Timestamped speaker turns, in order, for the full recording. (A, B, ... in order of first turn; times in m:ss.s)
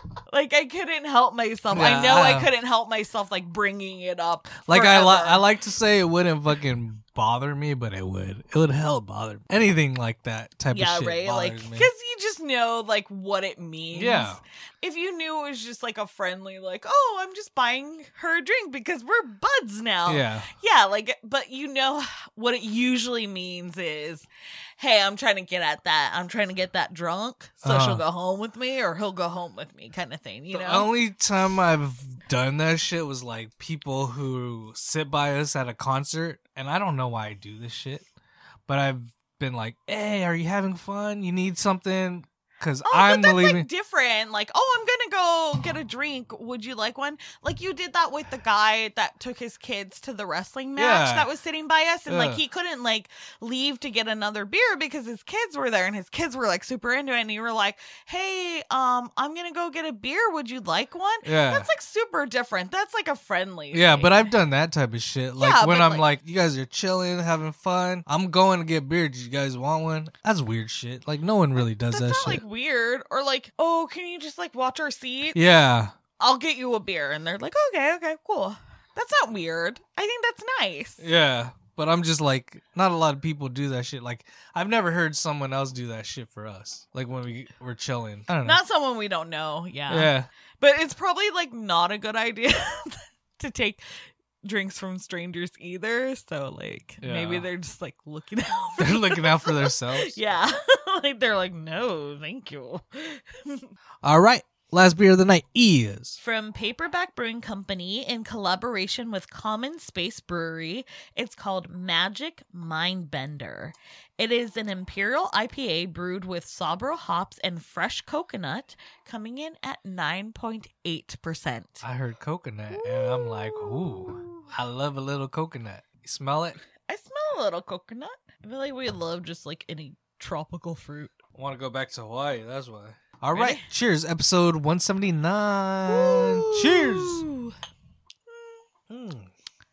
0:00.3-0:05.4 A
0:01.7-0:02.5 B
0:04.7-0:11.9 B
0:10.7-0:30.9 A
0:13.9-0:14.4 B
0:20.1-0:20.5 B
0:27.6-0:28.0 B
0:30.5-0:38.1 B
0:38.7-0:43.7 B
0:42.8-1:04.3 A
0:50.8-0:51.3 B
0:52.1-0:52.4 B
1:01.2-1:01.7 B
1:03.7-1:12.4 B
1:05.4-1:06.1 A
1:11.8-1:15.4 A
1:15.3-1:15.9 B
1:16.2-1:21.1 A
1:21.0-1:28.6 B
1:28.4-1:33.8 A
1:29.9-1:30.3 B
1:34.4-1:43.7 A
1:37.0-1:37.5 B
1:38.8-1:40.2 B
1:44.0-1:46.2 B
1:46.2-2:01.9 A
2:01.8-2:06.6 B
2:02.7-2:04.5 A
2:06.9-2:11.2 A
2:11.4-2:17.3 B
2:13.3-2:13.7 A
2:15.9-2:17.6 A
2:18.3-2:18.6 A
2:18.9-2:19.3 B